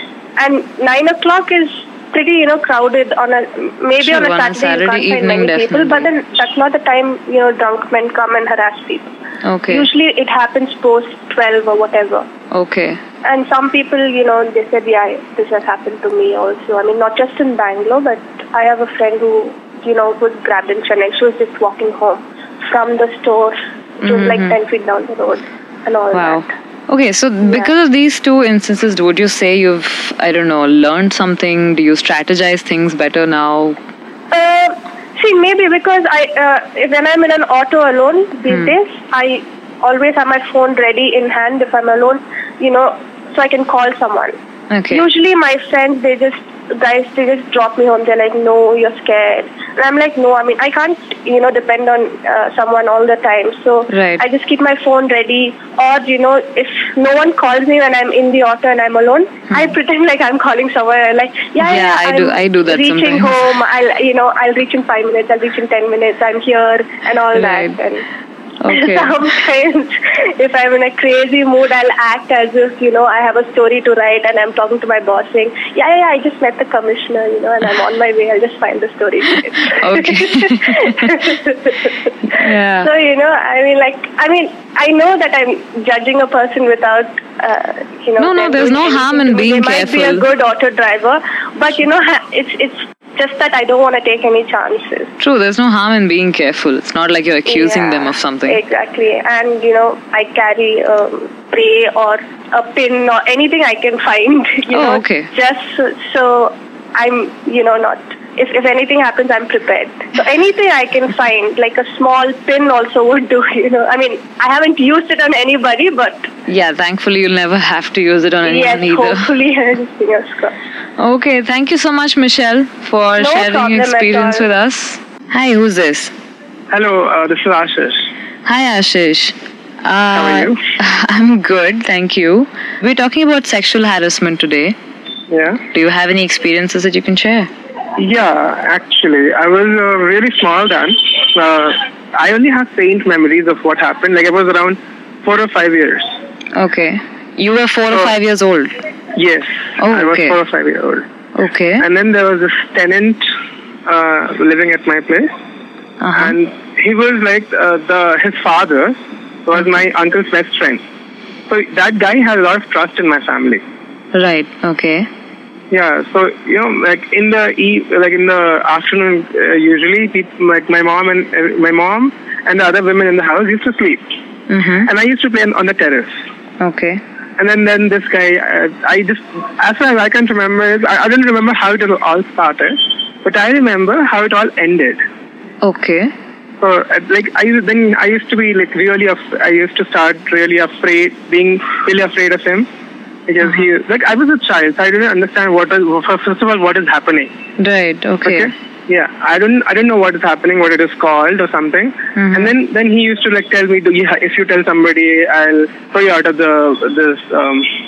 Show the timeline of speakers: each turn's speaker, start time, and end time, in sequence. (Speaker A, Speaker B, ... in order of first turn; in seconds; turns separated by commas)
Speaker A: 0.4-9.1, Speaker B: 4.0-6.1, Speaker B: 9.4-9.9, Speaker A: 9.7-12.3, Speaker B: 12.5-13.0, Speaker A: 13.2-26.5, Speaker B: 24.0-24.6, Speaker B: 26.1-33.8, Speaker A: 27.4-27.7, Speaker A: 34.3-44.4, Speaker B: 44.7-45.0, Speaker A: 44.9-68.0, Speaker B: 53.9-54.2, Speaker B: 61.6-63.3, Speaker B: 67.3-67.8, Speaker B: 68.6-69.1, Speaker A: 68.7-95.1, Speaker B: 79.7-81.2, Speaker B: 82.3-82.9, Speaker B: 88.2-90.2, Speaker B: 95.2-98.6, Speaker A: 97.5-116.3, Speaker B: 104.7-105.3, Speaker B: 116.5-119.3, Speaker A: 118.4-120.5, Speaker B: 121.0-126.1, Speaker A: 123.2-124.5, Speaker C: 126.7-128.1, Speaker B: 128.4-134.8, Speaker C: 130.1-130.6, Speaker C: 135.3-135.6, Speaker B: 135.7-137.5, Speaker C: 138.0-146.1, Speaker B: 146.5-148.7, Speaker C: 149.2-151.1, Speaker B: 149.8-150.4, Speaker B: 151.3-151.8, Speaker C: 151.8-153.2, Speaker C: 153.8-155.3, Speaker B: 156.0-156.3, Speaker C: 156.1-160.8, Speaker C: 161.5-163.6, Speaker B: 164.1-165.1, Speaker C: 165.7-174.0, Speaker B: 174.5-174.9, Speaker C: 174.8-176.1, Speaker B: 176.6-177.0, Speaker C: 177.4-185.0, Speaker B: 185.6-186.1, Speaker C: 186.6-192.7, Speaker C: 193.3-197.3, Speaker B: 197.6-198.5, Speaker C: 198.2-207.7, Speaker B: 202.2-202.5